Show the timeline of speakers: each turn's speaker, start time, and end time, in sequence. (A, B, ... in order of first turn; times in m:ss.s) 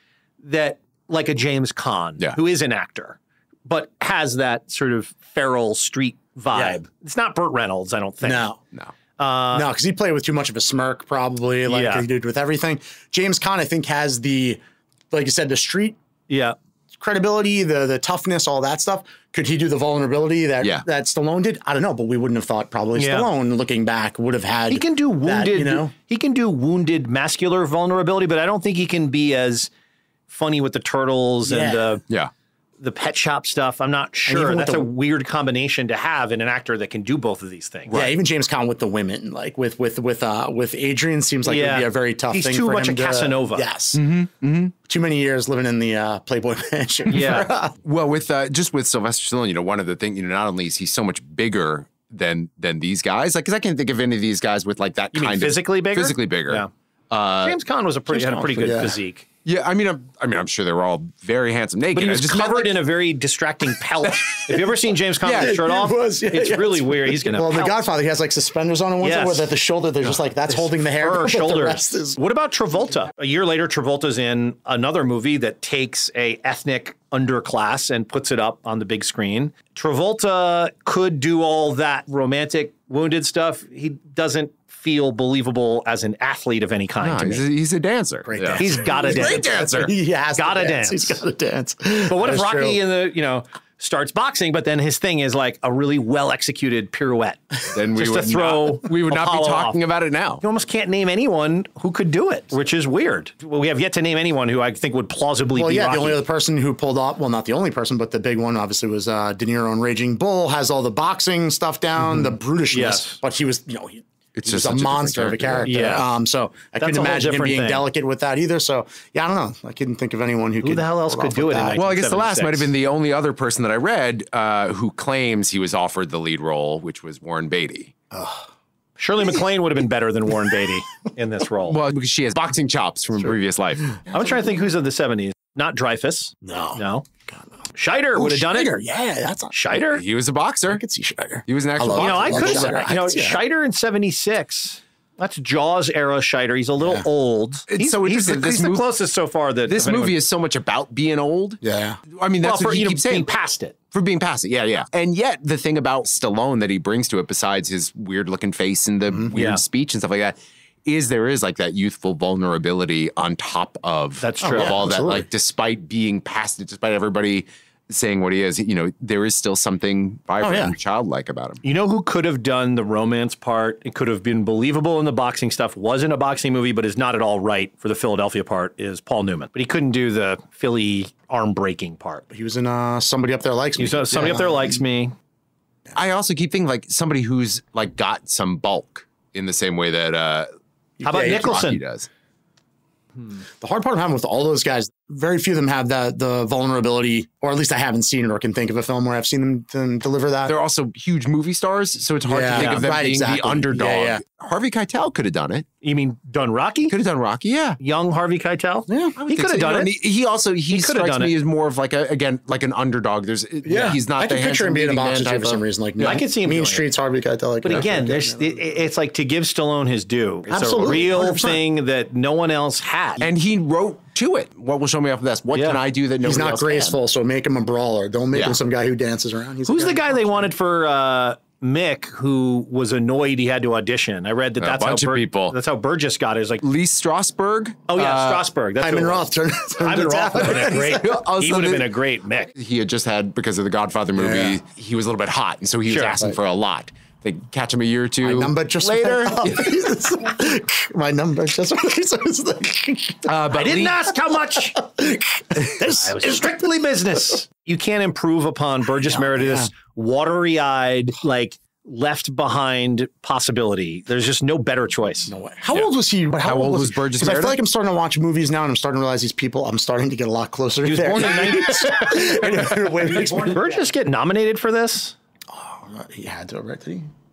0:00.4-0:08.5 A
0:06.5-0:06.8 B
0:08.2-0:08.6 B
0:09.2-0:09.7 A
0:09.5-0:14.6 B
0:11.7-0:12.0 A
0:15.1-0:16.0 B
0:16.3-0:16.6 A
0:16.9-0:25.9 B
0:20.6-0:20.8 C
0:23.0-0:23.3 A
0:24.7-0:29.7 A
0:30.3-0:32.0 A
0:31.4-0:31.9 B
0:32.8-0:38.0 A
0:34.2-0:34.9 B
0:37.9-0:38.1 C
0:37.9-0:44.0 B
0:41.4-0:43.6 A
0:43.9-0:44.7 C
0:44.8-0:47.7 B
0:47.1-0:47.5 A
0:47.8-0:57.6 C
0:55.1-0:56.7 A
0:57.4-0:59.2 A
0:58.1-0:59.0 B
0:59.4-1:02.8 C
1:01.9-1:07.8 A
1:05.2-1:12.2 B
1:09.0-1:09.5 A
1:10.0-1:27.4 A
1:27.0-1:29.9 C
1:28.3-1:32.8 B
1:28.6-1:29.5 A
1:30.4-1:31.2 A
1:32.1-1:37.4 A
1:37.7-1:40.4 C
1:37.9-1:39.8 A
1:40.4-1:46.2 A
1:45.5-2:01.8 B
1:52.0-1:53.2 A
1:54.3-1:55.7 C
1:55.6-1:56.0 A
1:56.8-1:57.8 A
2:00.6-2:02.7 A
2:01.7-2:07.9 C
2:08.1-2:08.5 B
2:09.0-2:11.8 A
2:11.6-2:14.0 C
2:14.1-2:14.4 B
2:14.1-2:17.1 A
2:16.4-2:17.4 B
2:17.7-2:18.8 A
2:18.1-2:19.5 B
2:19.5-2:20.0 A
2:19.7-2:20.8 C
2:20.7-2:23.4 B
2:21.5-2:22.8 C
2:22.0-2:30.2 A
2:27.7-2:28.9 C
2:29.6-2:33.3 C
2:31.6-2:32.0 B
2:32.4-2:33.7 A
2:33.9-2:51.6 C
2:39.3-2:39.6 A
2:44.2-2:44.8 A
2:44.4-2:45.3 B
2:50.4-2:50.7 B
2:51.6-3:02.2 A
3:02.3-3:04.8 B
3:03.8-3:05.1 A
3:05.9-3:10.5 C
3:11.0-3:11.5 B
3:11.0-3:11.8 A
3:11.1-3:12.1 C
3:13.6-3:20.5 B
3:20.5-3:25.7 C
3:22.3-3:24.2 B
3:25.8-3:26.9 A
3:26.9-3:27.8 C
3:27.8-3:29.9 A
3:28.9-3:29.2 B
3:29.2-3:36.2 C
3:30.7-3:31.3 A
3:33.6-3:38.7 B
3:36.0-3:36.9 A
3:37.6-3:43.3 A
3:40.5-3:41.6 B
3:43.2-3:47.0 C
3:45.5-3:45.8 A
3:46.2-3:50.5 B
3:48.3-3:48.6 C
3:49.7-3:56.6 A
3:54.6-3:55.6 C
3:56.6-3:58.4 C
3:57.9-3:59.3 A
3:58.8-4:01.0 B
3:59.8-4:02.5 A
4:00.4-4:01.9 C
4:02.5-4:09.8 C
4:04.2-4:04.6 B
4:05.8-4:06.2 A
4:08.2-4:13.3 B
4:13.2-4:14.0 C
4:13.5-4:14.7 A
4:14.7-4:16.7 B
4:16.0-4:25.3 A
4:19.0-4:19.7 B
4:25.3-4:33.7 B
4:25.7-4:27.6 C
4:30.8-4:35.2 A
4:35.5-4:37.1 B